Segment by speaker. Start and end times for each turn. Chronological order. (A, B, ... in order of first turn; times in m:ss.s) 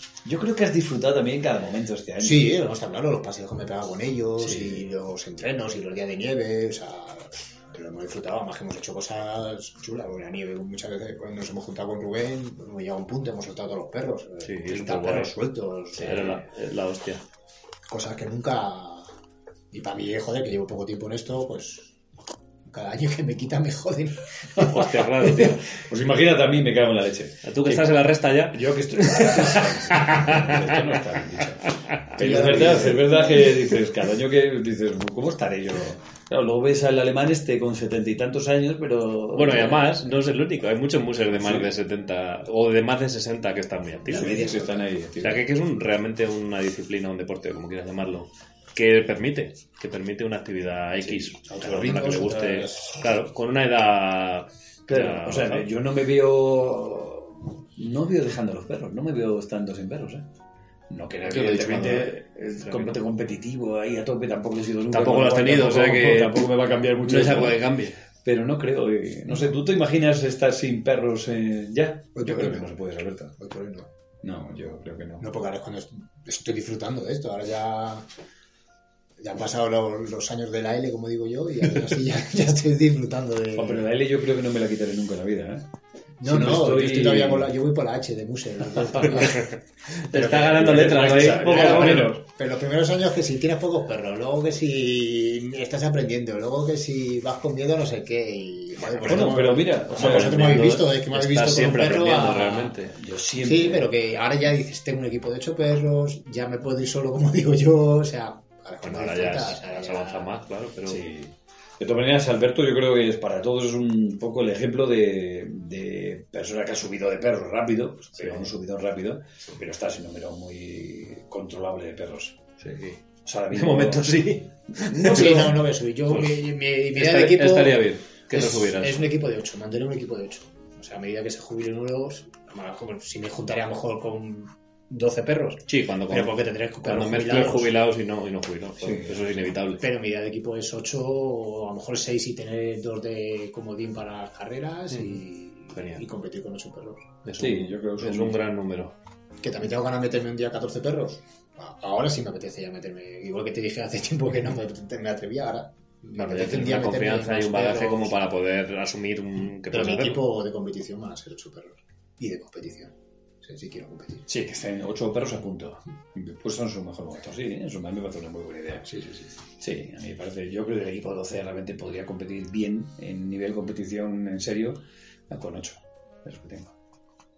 0:00.2-0:02.6 A
0:02.2-0:16.4 B
0:04.4-0:04.8 A
0:14.4-0:15.3 C
0:15.9-0:17.2 C
0:16.0-0:16.4 A
0:17.9-0:19.1 B
0:19.7-0:22.0 B
0:22.7-0:24.7 B
0:24.6-0:40.1 A
0:24.6-0:25.6 C
0:27.4-0:30.8 C
0:31.9-0:32.8 C
0:32.2-0:33.5 B
0:39.3-0:44.4 C
0:41.3-0:41.7 A
0:44.1-0:45.0 B
0:44.1-0:45.4 A
0:45.2-0:55.7 C
0:51.0-0:52.9 A
0:51.5-0:53.0 B
0:54.9-1:00.3 A
1:00.9-1:07.7 A
1:01.3-1:03.0 C
1:04.9-1:06.5 C
1:07.0-1:08.0 C
1:08.2-1:13.3 A
1:12.1-1:12.8 B
1:13.3-1:13.9 B
1:14.2-1:15.3 A
1:15.2-1:18.0 B
1:19.2-1:23.9 B
1:23.6-1:25.7 A
1:26.2-1:29.5 B
1:26.2-1:27.5 A
1:30.1-1:32.1 C
1:30.1-1:42.8 B
1:30.1-1:32.2 A
1:38.8-1:39.4 C
1:39.0-1:40.8 A
1:39.9-1:42.9 C
1:42.9-1:43.9 A
1:43.4-1:50.3 B
1:48.8-1:51.0 C
1:50.9-2:02.4 A
1:58.2-1:58.5 C
2:02.6-2:03.0 C
2:03.2-2:04.1 A
2:03.5-2:05.6 C
2:04.9-2:05.4 A
2:04.9-2:17.7 B
2:06.1-2:06.4 C
2:06.9-2:09.1 C
2:15.7-2:19.8 C
2:18.8-2:19.3 A
2:19.8-2:27.2 B
2:24.9-2:25.2 C
2:25.7-2:26.0 C
2:27.2-2:29.0 C
2:27.4-2:28.4 A
2:29.4-2:38.2 B
2:36.1-2:40.2 C
2:39.7-2:44.2 B
2:44.3-2:48.9 A
2:48.9-2:49.3 B
2:49.6-2:56.7 A